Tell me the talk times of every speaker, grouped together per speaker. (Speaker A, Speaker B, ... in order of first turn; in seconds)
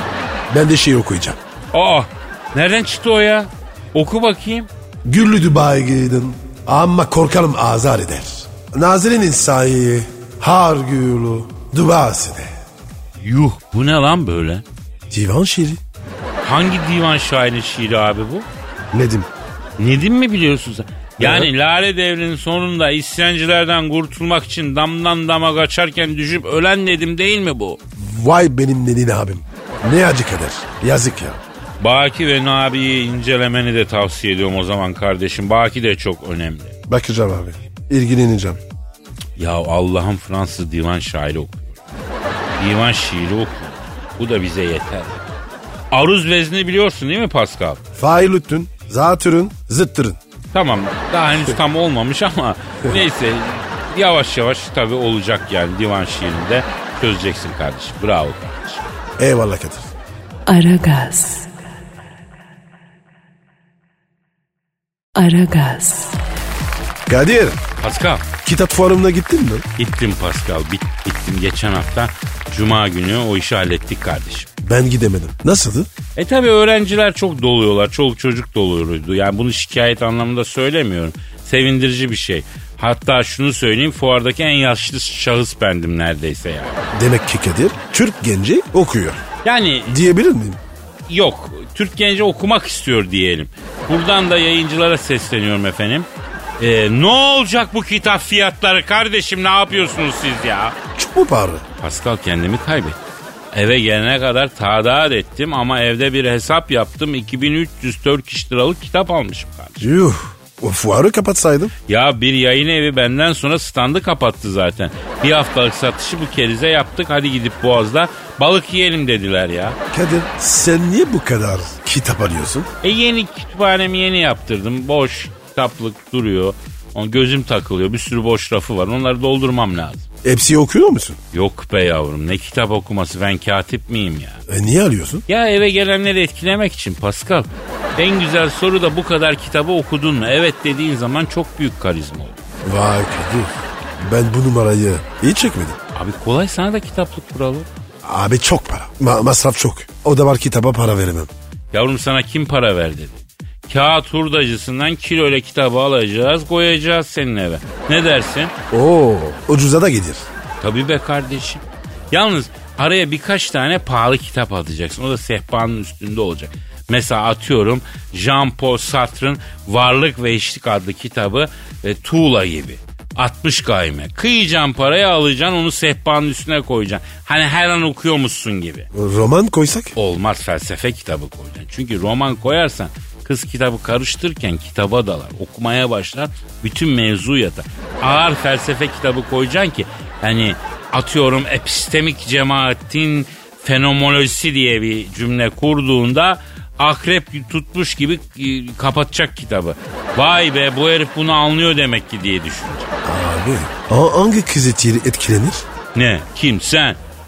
Speaker A: 0.5-1.4, 5.0-12.5, 15.1-15.8, 18.9-19.3, 21.2-21.5, 28.0-31.4, 36.9-38.6, 48.0-50.2, 59.2-59.9, 67.1-67.6, 68.4-69.6, 74.6-75.9, 86.9-89.2, 89.9-90.6, 101.0-101.6, 109.8-111.7, 119.9-122.7, 130.2-131.2, 134.5-135.2, 142.6-145.8, 148.0-151.3, 158.7-160.2, 178.9-179.9, 203.0-205.7
Speaker B: 1.7-4.7, 13.2-14.6, 16.4-18.5, 19.8-27.8, 31.8-36.8, 39.4-41.8, 42.6-45.2, 45.9-47.8, 50.5-58.9, 67.8-68.2, 69.8-74.5, 76.1-86.8, 89.4-90.0, 91.1-96.1, 96.6-100.8, 101.8-103.0, 103.5-109.8, 111.9-119.8, 122.8-130.1, 131.3-134.4, 135.3-142.4, 145.9-147.7, 151.7-158.5, 160.6-178.9, 179.9-202.9, 205.9-207.0
Speaker C: 60.5-61.5, 65.1-66.2